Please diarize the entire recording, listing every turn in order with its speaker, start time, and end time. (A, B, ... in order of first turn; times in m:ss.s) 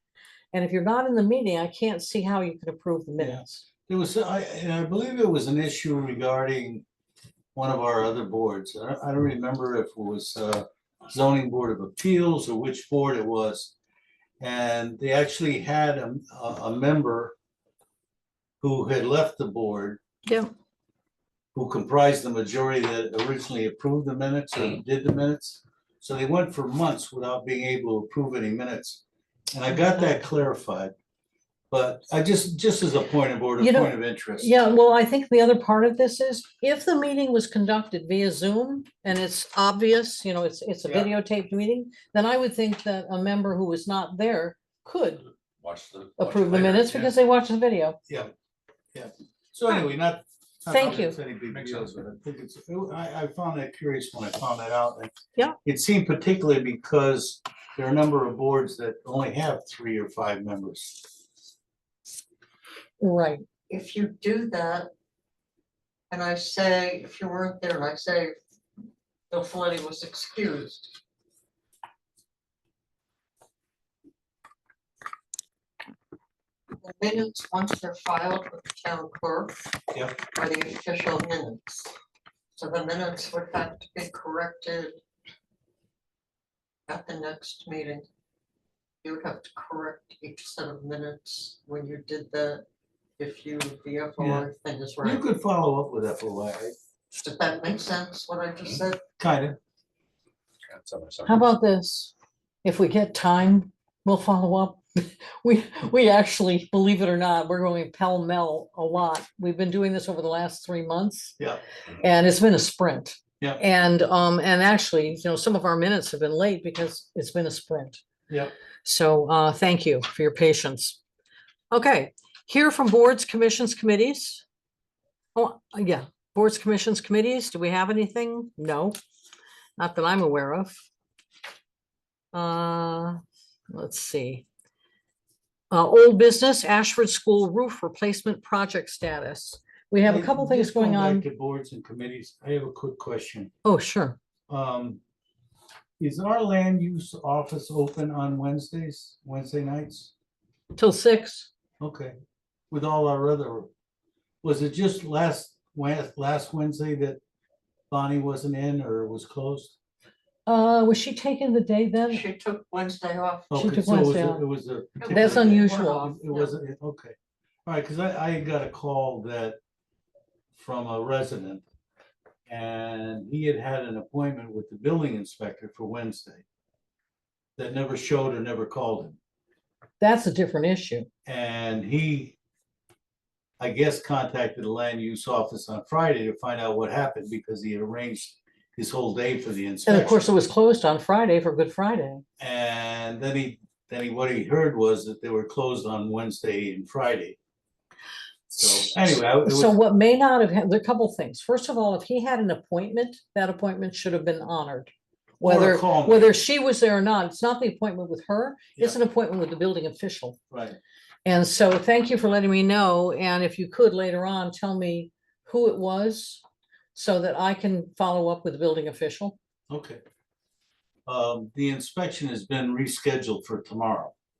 0:00.5-0:03.7 A
0:03.2-0:06.8 B
0:07.6-0:13.7 B
0:14.4-0:17.4 B
0:18.6-0:20.0 B
0:20.3-0:20.5 A
0:21.5-0:29.0 B
0:29.5-0:30.9 B
0:31.7-0:34.5 B
0:33.6-0:45.2 A
0:40.8-0:41.1 B
0:45.6-0:46.4 C
0:46.2-0:48.0 A
0:46.4-0:47.1 B
0:48.1-0:48.3 B
0:48.9-0:55.1 B
0:50.7-0:51.2 A
0:51.5-0:51.9 C
0:55.6-1:01.1 B
1:03.0-1:03.4 A
1:03.7-1:04.9 D
1:06.1-1:08.4 D
1:09.3-1:11.0 D
1:16.8-1:19.7 D
1:19.9-1:20.2 B
1:20.2-1:21.9 D
1:22.6-1:25.0 D
1:26.9-1:28.0 D
1:29.0-1:32.6 D
1:33.2-1:35.2 D
1:34.2-1:34.5 B
1:35.0-1:36.8 B
1:37.1-1:39.0 D
1:39.2-1:39.6 B
1:40.7-1:41.5 C
1:41.3-1:42.1 A
1:42.6-1:51.4 A
1:52.0-1:58.0 A
1:58.8-2:01.0 A
2:01.7-2:04.4 A
2:05.4-2:09.0 A
2:09.8-2:10.8 A
2:12.3-2:13.2 A
2:13.7-2:14.5 A
2:15.7-2:21.3 A
2:20.0-2:23.5 B
2:23.6-2:24.2 A
2:24.5-2:25.0 B
2:26.0-2:30.1 B
2:30.8-2:31.5 A
2:31.8-2:32.2 B
2:32.7-2:33.7 B
2:34.4-2:37.2 B
2:37.9-2:39.8 B
2:40.5-2:42.2 A
2:42.1-2:43.5 D
2:43.5-2:47.2 B
2:43.6-2:44.4 A
2:45.0-2:46.5 D
2:45.1-2:46.1 A
2:47.7-2:49.6 B
2:50.6-2:51.6 B
2:52.5-2:56.4 B
2:57.6-2:59.2 B
3:00.0-3:01.1 A
3:01.3-3:02.4 B
3:03.6-3:10.2 B
3:09.9-3:12.2 A
3:12.4-3:17.4 B
3:18.5-3:19.8 B
3:19.5-3:30.4 A
3:25.4-3:26.4 B
3:30.5-3:30.8 B
3:31.2-3:36.4 A
3:37.0-3:39.4 A
3:39.7-3:40.0 B
3:41.1-3:44.1 B